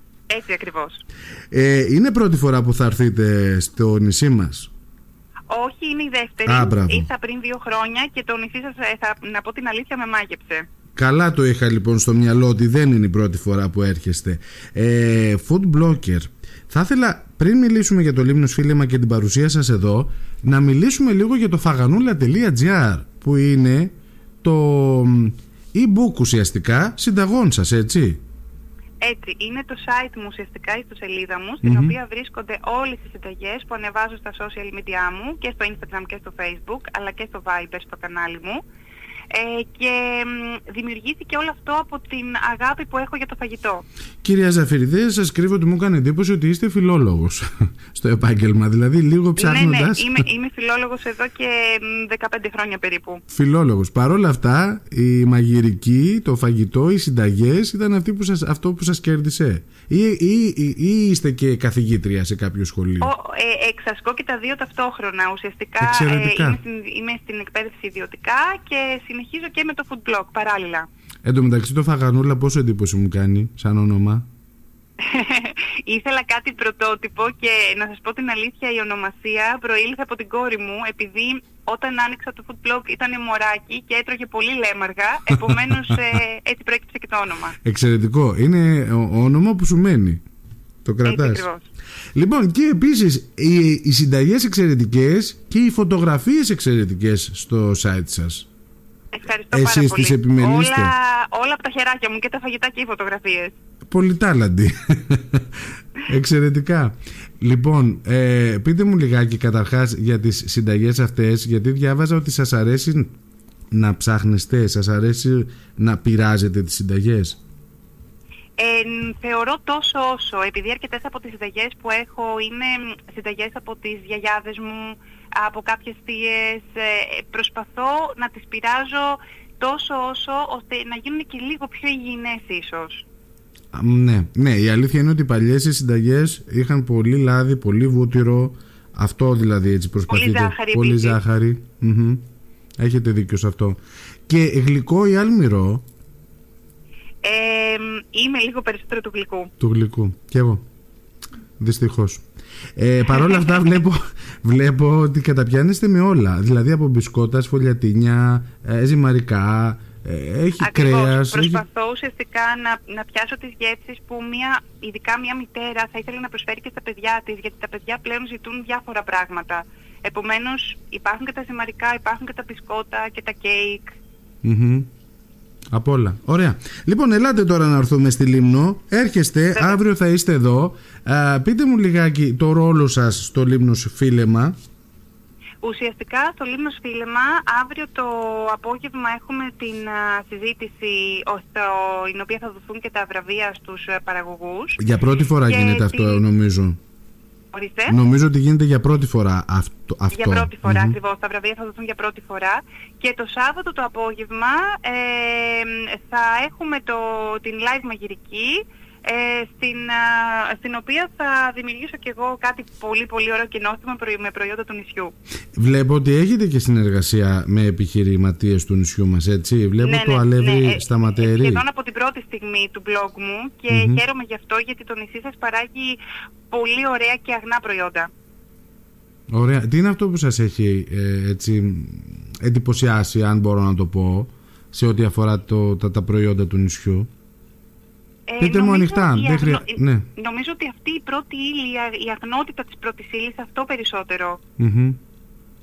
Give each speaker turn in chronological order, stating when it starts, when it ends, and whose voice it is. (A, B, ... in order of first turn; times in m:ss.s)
0:00.3-0:01.0 A
0:01.5-0:04.7 B
0:05.5-0:10.6 A
0:06.4-0:07.1 B
0:11.0-0:28.2 B
0:29.0-0:38.6 A
0:31.6-0:32.0 B
0:39.3-0:43.8 A
0:44.2-0:50.2 B
0:49.4-0:53.2 A
0:53.3-1:03.1 B
1:03.0-1:10.9 A
1:05.8-1:06.6 B
1:11.2-1:14.2 B
1:15.0-1:27.6 A
1:25.5-1:26.0 B
1:27.6-1:30.2 B
1:30.8-1:31.5 B
1:31.0-1:31.6 A
1:32.1-1:38.5 B
1:39.1-1:43.5 A
1:39.5-1:40.9 B
1:43.9-1:53.1 B
1:53.7-1:57.4 B
1:58.6-2:13.0 A
2:13.7-2:22.2 B
2:20.1-2:21.2 A
2:22.8-2:25.8 B
2:27.2-2:29.5 A
2:29.6-2:30.6 B
2:31.6-2:32.2 B
2:32.8-2:41.6 B
2:33.1-2:33.7 A
2:40.6-2:54.0 A
2:54.4-2:54.9 B
2:55.7-3:04.6 B
2:59.5-2:59.8 A
3:05.6-3:14.8 A
3:14.8-3:16.8 B
3:15.4-3:16.2 A
3:17.5-3:18.0 A
3:17.9-3:21.0 B
3:20.1-3:35.1 A
3:35.5-3:41.6 B
3:39.8-3:48.1 A
3:43.7-3:44.0 B
3:49.3-3:57.1 B
3:58.3-4:04.4 A
3:58.4-4:00.1 B
4:04.6-4:05.0 B